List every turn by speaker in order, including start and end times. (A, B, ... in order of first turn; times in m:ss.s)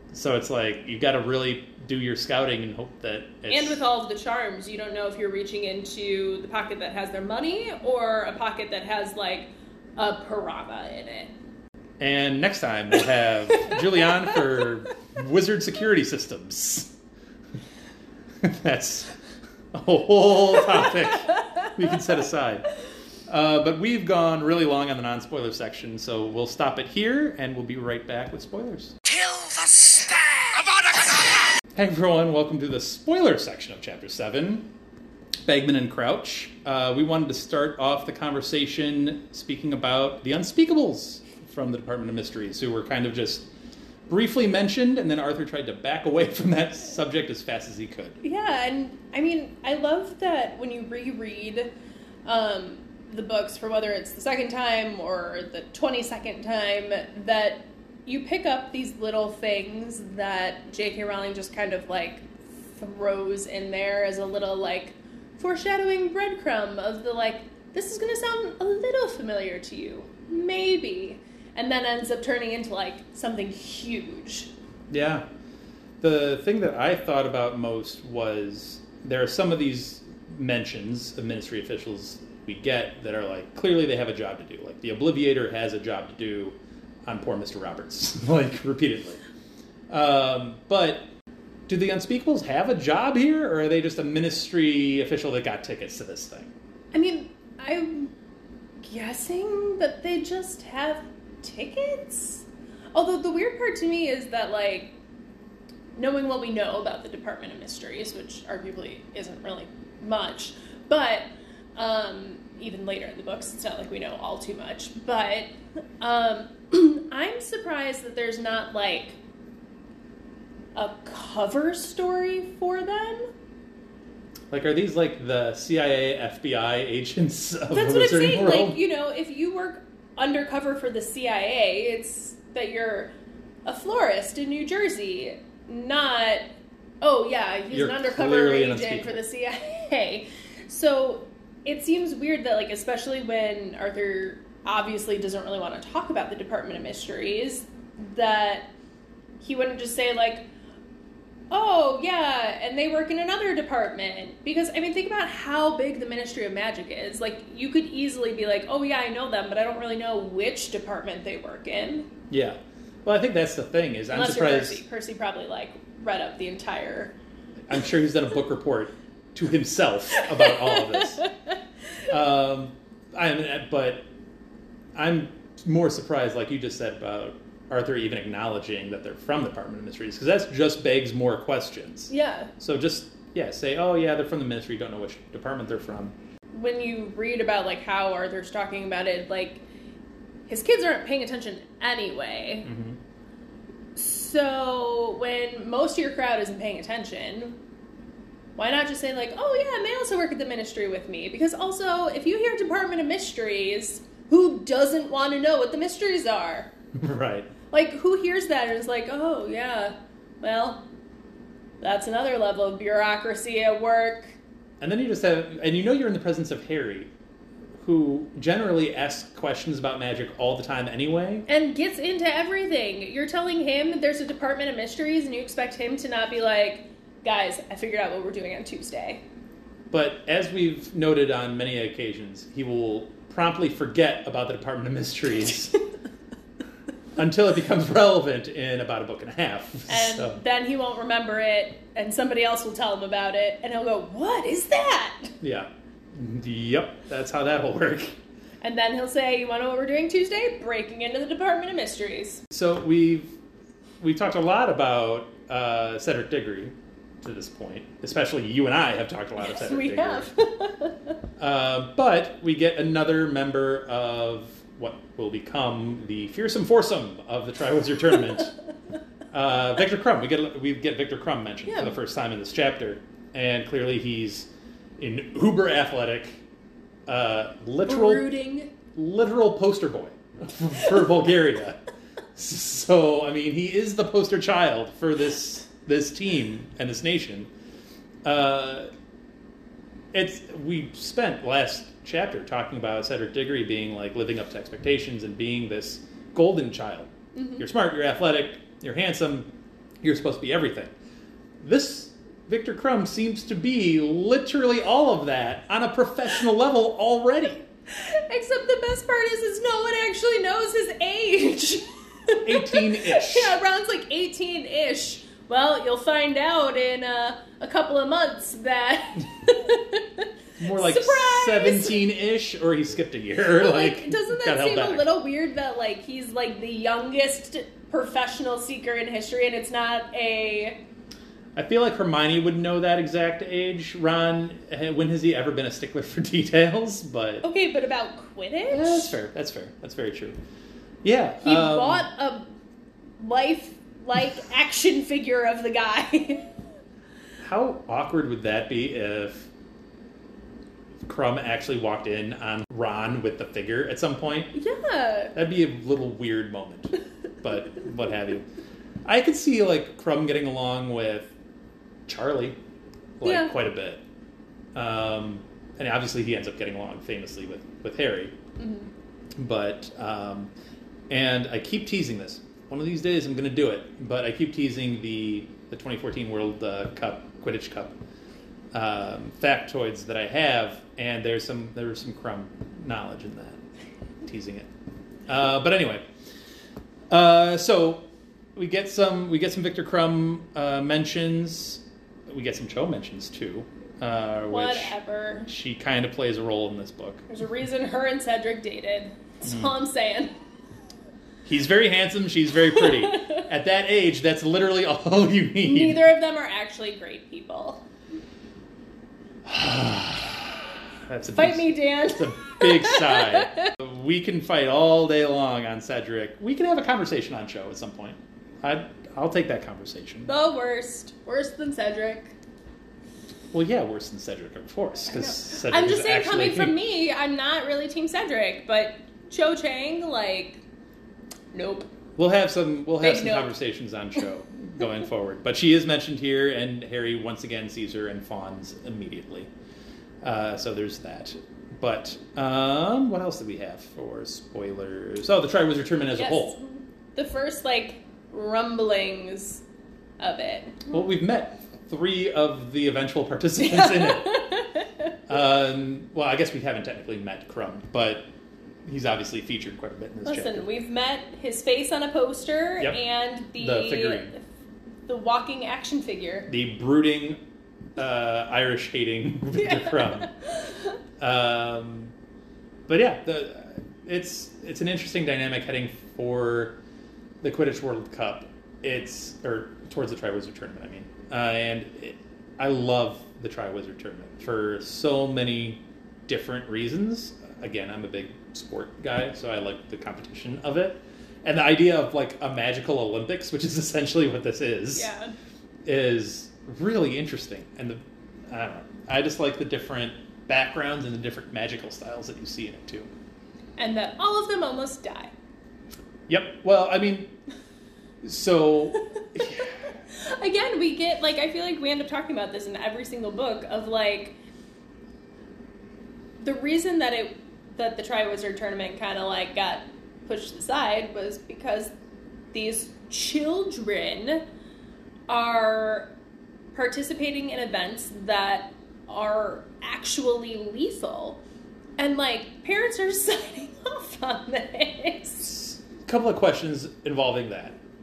0:00.1-0:03.8 A
0:03.5-0:11.3 B
0:12.0-0:16.9 A
0:18.4-0:19.2 A
0:19.7-0:22.7 A
0:23.3-0:29.0 A
0:29.1-0:31.5 C
0:31.7-0:34.7 A
0:35.5-0:43.5 A
0:44.1-0:48.2 A
0:48.2-0:51.7 B
0:52.3-1:14.5 B
1:14.9-1:15.2 A
1:16.0-1:29.2 A
1:29.9-1:31.1 A
1:31.7-1:36.5 A
1:36.9-1:38.1 B
1:38.8-1:44.9 B
1:46.0-1:59.2 B
2:00.8-2:03.3 B
2:04.5-2:08.8 A
2:07.7-2:13.1 B
2:13.6-2:16.4 B
2:17.0-2:28.7 B
2:17.7-2:19.2 A
2:29.4-2:30.5 B
2:31.5-2:42.1 B
2:42.3-2:44.8 A
2:44.1-2:47.2 B
2:47.7-2:51.2 A
2:50.3-2:51.3 B
2:52.1-2:54.0 A
2:54.9-3:06.1 A
3:02.1-3:02.5 B
3:06.5-3:09.6 B
3:10.5-3:12.7 B
3:12.6-3:13.0 A
3:14.0-3:17.6 B
3:18.6-3:26.7 B
3:26.9-3:27.5 A
3:27.7-3:30.8 B
3:31.8-3:34.4 B
3:34.8-3:37.1 A
3:37.8-3:41.5 A
3:41.5-3:49.2 B
3:49.9-3:55.8 A
3:57.2-4:00.4 A
3:59.9-4:05.3 B
4:05.4-4:08.2 A
4:08.6-4:12.4 B
4:12.5-4:13.4 A
4:14.0-4:20.3 A
4:19.4-4:21.2 B
4:21.4-4:28.5 A
4:29.3-4:36.4 A
4:31.7-4:32.0 B
4:37.1-4:38.3 A
4:37.8-4:38.7 B
4:38.9-4:41.8 A
4:42.4-4:47.5 A
4:48.2-4:48.9 A
4:50.1-4:59.5 A
4:57.4-4:57.6 B
5:00.0-5:00.9 A
5:01.6-5:07.7 A
5:07.9-5:22.0 B
5:12.4-5:13.6 A
5:20.6-5:25.1 A
5:23.6-5:30.8 B
5:31.6-5:37.5 A
5:37.4-5:39.2 B
5:38.7-5:40.4 A
5:41.0-5:42.1 A
5:41.4-5:42.5 B
5:43.2-5:46.5 B
5:47.4-5:49.5 A
5:51.0-5:54.5 A
5:54.5-5:55.4 B
5:55.3-5:58.5 A
5:59.0-6:01.3 A
6:02.1-6:02.6 A
6:03.2-6:04.0 A
6:03.2-6:03.5 B
6:04.8-6:08.4 A
6:08.6-6:08.9 B
6:09.4-6:10.5 A
6:11.1-6:18.0 A
6:18.7-6:23.6 A
6:24.2-6:24.7 A
6:25.3-6:26.0 A
6:27.1-6:34.9 A
6:34.5-6:35.5 B
6:35.5-6:37.3 A
6:37.3-6:40.3 B
6:39.4-6:39.7 A
6:41.4-6:46.0 A
6:42.8-6:43.4 B
6:45.6-6:47.8 B
6:49.5-7:00.3 A
6:51.3-6:53.7 B
7:00.3-7:02.4 B
7:03.5-7:06.8 A
7:05.1-7:10.6 B
7:11.5-7:11.9 B
7:12.2-7:19.5 A
7:13.0-7:13.5 B
7:20.2-7:26.6 A
7:26.2-7:29.6 B
7:30.2-7:31.0 B
7:30.9-7:34.4 A
7:33.6-7:35.1 B
7:35.3-7:38.2 A
7:38.8-7:40.7 A
7:40.2-7:44.4 B
7:43.6-7:44.3 A
7:45.1-7:46.5 B
7:46.5-7:47.4 A
7:48.0-7:50.3 A
7:49.6-7:51.0 B
7:51.2-7:52.1 A
7:52.9-7:56.8 A
7:57.4-8:15.1 A
8:14.9-8:15.3 B
8:15.8-8:23.1 A
8:23.8-8:25.3 B
8:26.3-8:27.3 A
8:28.2-8:29.7 A
8:30.1-8:34.4 B
8:36.4-8:41.9 B
8:42.5-8:44.4 B
8:45.3-8:46.1 B
8:46.7-8:51.4 B
8:52.0-8:55.6 B
8:55.6-8:57.8 A